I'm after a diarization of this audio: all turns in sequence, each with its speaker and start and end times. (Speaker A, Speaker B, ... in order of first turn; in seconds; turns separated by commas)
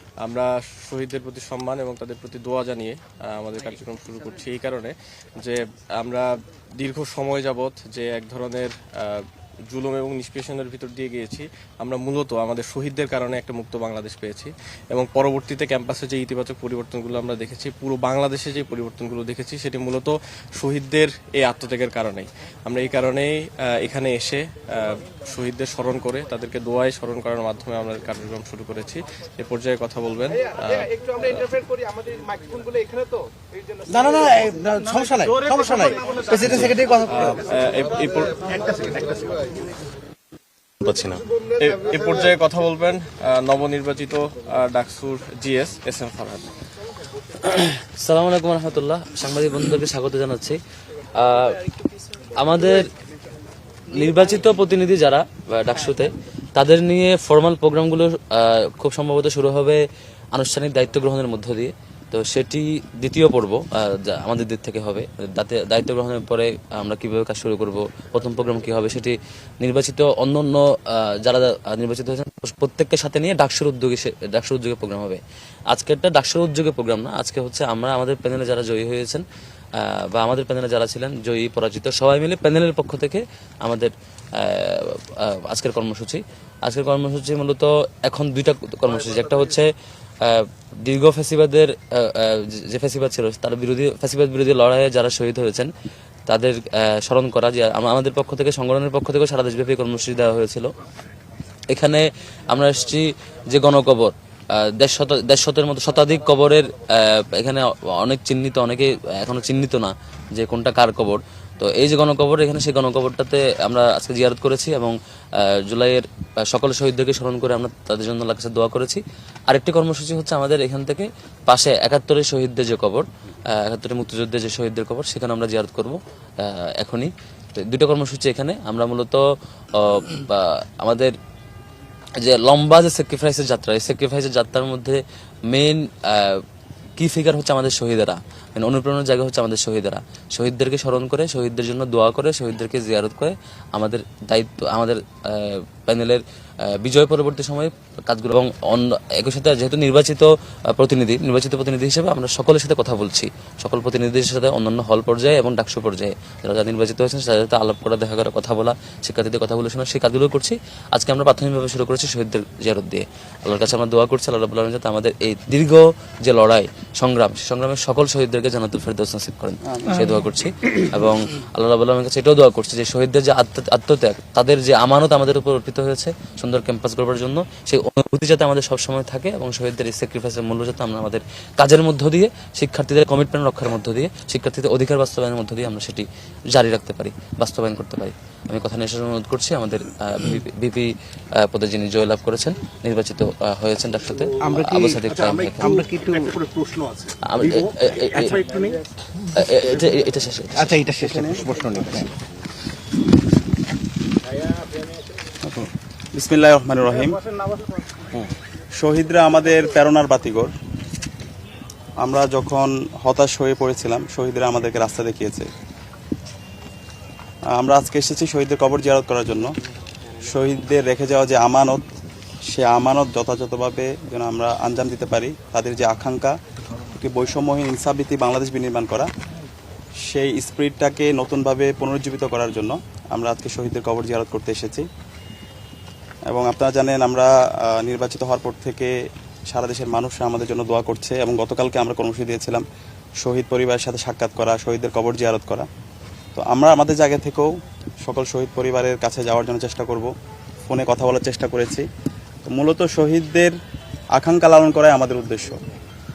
Speaker A: 0.2-31.8, Speaker B: 33.9-37.3, Speaker A: 36.3-38.4, Speaker C: 38.4-39.5, Speaker B: 40.8-41.2, Speaker A: 41.5-46.5, Speaker D: 47.4-50.6, Speaker D: 51.1-52.9, Speaker D: 53.9-79.2, Speaker D: 79.8-95.7, Speaker D: 96.3-100.7, Speaker D: 101.7-131.2, Speaker D: 132.2-136.4, Speaker D: 137.0-195.7, Speaker E: 169.7-170.1, Speaker B: 194.4-195.1, Speaker C: 194.4-198.8, Speaker B: 195.6-196.3, Speaker D: 197.2-198.4, Speaker D: 199.3-200.8, Speaker B: 200.6-202.1, Speaker E: 201.0-201.4, Speaker E: 206.1-207.2, Speaker E: 208.8-210.5, Speaker E: 212.0-215.5, Speaker E: 217.5-219.5, Speaker E: 220.2-221.8, Speaker E: 222.5-226.3, Speaker E: 227.0-229.1, Speaker E: 230.1-234.9, Speaker E: 236.3-238.9, Speaker E: 239.5-242.6, Speaker E: 243.2-245.7, Speaker E: 246.3-250.1, Speaker E: 250.7-251.8, Speaker E: 252.4-253.6, Speaker E: 254.1-255.6